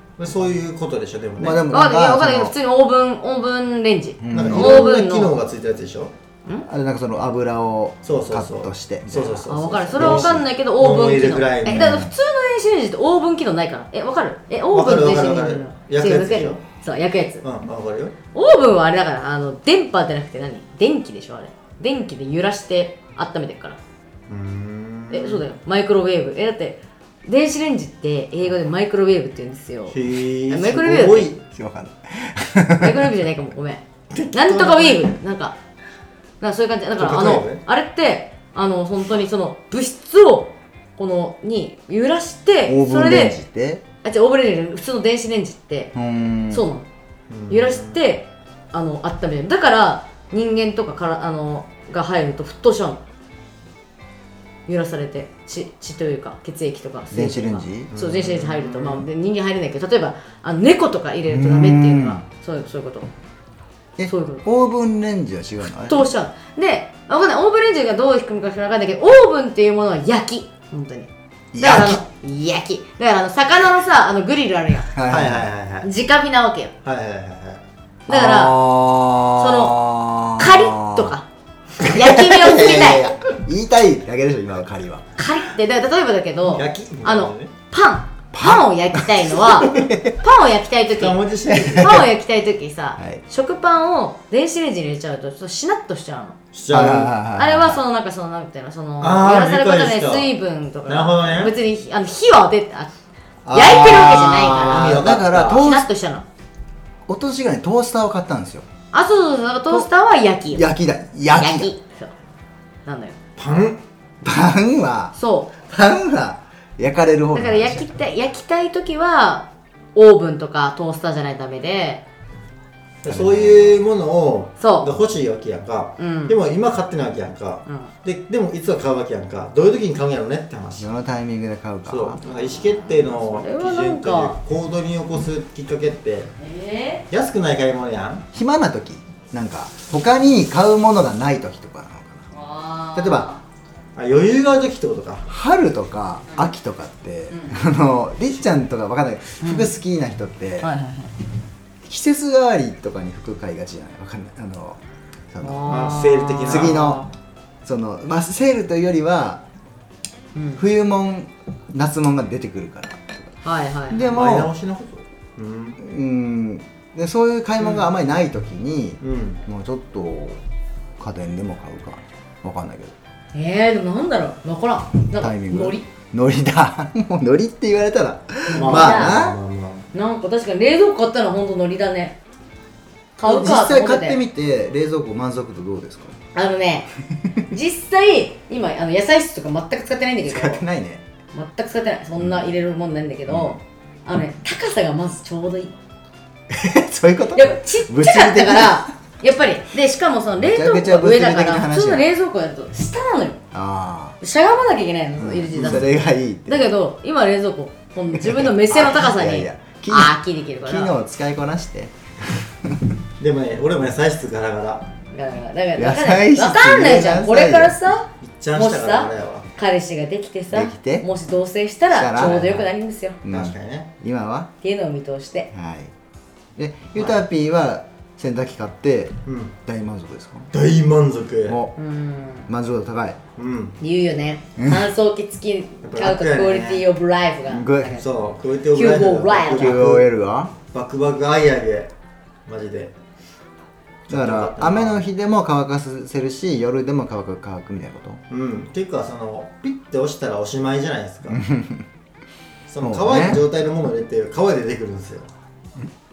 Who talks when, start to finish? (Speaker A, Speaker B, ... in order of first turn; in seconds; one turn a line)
Speaker A: 0.2-1.6
Speaker B: 1.4-2.5
Speaker C: 1.6-5.3
Speaker B: 4.2-4.9
Speaker A: 4.3-6.1
Speaker B: 6.6-10.4
Speaker A: 8.0-12.0
Speaker C: 9.5-17.4
Speaker B: 11.7-12.1
Speaker A: 14.7-16.6
Speaker A: 17.4-18.1
Speaker C: 18.3-23.8
Speaker A: 24.3-25.4
Speaker C: 25.1-31.3
Speaker A: 29.9-31.4
Speaker B: 31.5-33.0
Speaker C: 32.8-35.5
Speaker A: 34.1-35.1
Speaker C: 36.4-43.4
Speaker A: 37.0-37.6
Speaker B: 42.7-43.8
Speaker C: 44.0-45.9
Speaker B: 45.9-46.6
Speaker C: 46.5-46.9
Speaker A: 47.3-48.0
Speaker C: 47.5-53.0
Speaker C: 54.6-63.1
Speaker B: 57.1-57.9
Speaker A: 57.9-59.1
Speaker B: 61.3-62.2
Speaker B: 64.0-66.0
Speaker C: 64.0-64.4
Speaker C: 65.6-74.9
Speaker B: 71.5-72.0
Speaker B: 74.9-75.5
Speaker A: 75.1-75.9
Speaker C: 75.8-76.7
Speaker A: 76.8-77.6
Speaker C: 78.1-78.7
Speaker B: 78.1-81.2
Speaker C: 79.3-81.3
Speaker C: 81.8-83.1
Speaker B: 82.0-85.0
Speaker A: 82.4-82.8
Speaker C: 85.2-96.4
Speaker A: 86.5-87.5
Speaker B: 88.3-90.2
Speaker A: 90.9-92.1
Speaker B: 91.5-92.1
Speaker A: 96.5-97.2
Speaker B: 96.7-97.8
Speaker C: 97.3-102.9
Speaker A: 99.0-100.3
Speaker A: 100.8-101.6
Speaker B: 103.4-105.9
Speaker C: 103.5-106.2
Speaker A: 104.6-105.7
Speaker B: 107.1-108.7
Speaker C: 108.9-110.7
Speaker B: 110.5-111.7
Speaker C: 111.3-112.1
Speaker C: 112.8-113.2
Speaker A: 113.4-113.8
Speaker B: 114.2-117.9
Speaker C: 115.1-115.5
Speaker C: 117.3-122.0
Speaker A: 123.0-130.9
Speaker B: 123.0-123.8
Speaker C: 124.6-125.0
Speaker C: 126.0-126.4
Speaker C: 127.7-127.9
Speaker B: 130.8-132.2
Speaker A: 131.8-136.3
Speaker C: 133.0-134.4
Speaker C: 136.4-137.0
Speaker A: 137.1-138.2
Speaker B: 138.3-142.3
Speaker C: 142.3-143.4
Speaker B: 142.9-143.3
Speaker A: 143.9-145.3
Speaker B: 145.3-150.7
Speaker C: 147.3-147.6
Speaker C: 149.4-149.7
Speaker C: 150.6-151.1
Speaker B: 151.8-154.8
Speaker B: 155.3-155.9
Speaker C: 155.4-157.1
Speaker A: 155.7-156.8
Speaker B: 156.5-157.0
Speaker B: 157.6-159.4
Speaker C: 160.3-160.6
Speaker B: 160.6-163.1
Speaker C: 163.4-164.2
Speaker B: 163.9-164.5
Speaker A: 164.1-165.8
Speaker B: 165.8-170.4
Speaker A: 169.0-169.4
Speaker B: 171.0-172.9
Speaker C: 173.3-175.8
Speaker B: 175.1-179.4
Speaker C: 178.5-179.2
Speaker A: 178.5-179.8
Speaker C: 179.9-182.2
Speaker C: 183.2-184.2
Speaker B: 183.2-186.1
Speaker C: 186.3-190.6
Speaker B: 190.3-191.0
Speaker C: 191.3-195.7
Speaker B: 193.3-193.6
Speaker B: 196.5-198.8
Speaker C: 197.3-203.4
Speaker B: 200.4-202.0
Speaker B: 203.5-204.2
Speaker C: 204.2-210.9
Speaker B: 205.2-206.7
Speaker A: 205.5-205.8
Speaker B: 208.1-212.9
Speaker A: 213.2-214.9
Speaker C: 215.1-223.2
Speaker B: 215.8-217.8
Speaker A: 218.2-219.5
Speaker B: 220.5-221.1
Speaker B: 221.9-222.7
Speaker B: 223.2-224.5
Speaker A: 223.3-223.9
Speaker C: 224.6-225.5
Speaker B: 225.5-225.9
Speaker B: 226.6-230.5
Speaker A: 229.2-229.5
Speaker A: 230.5-231.6
Speaker B: 231.5-231.8
Speaker C: 231.8-232.5
Speaker B: 232.5-233.2
Speaker A: 233.4-233.8
Speaker C: 233.8-238.1
Speaker B: 234.6-234.9
Speaker A: 235.8-236.9
Speaker B: 237.5-238.0
Speaker A: 238.0-240.1
Speaker C: 238.7-239.8
Speaker B: 239.6-240.5
Speaker A: 240.7-241.9
Speaker A: 242.5-242.9
Speaker A: 244.1-245.1
Speaker B: 244.1-248.2
Speaker A: 248.3-251.4
Speaker B: 251.3-251.9
Speaker A: 252.7-255.3
Speaker B: 252.8-253.4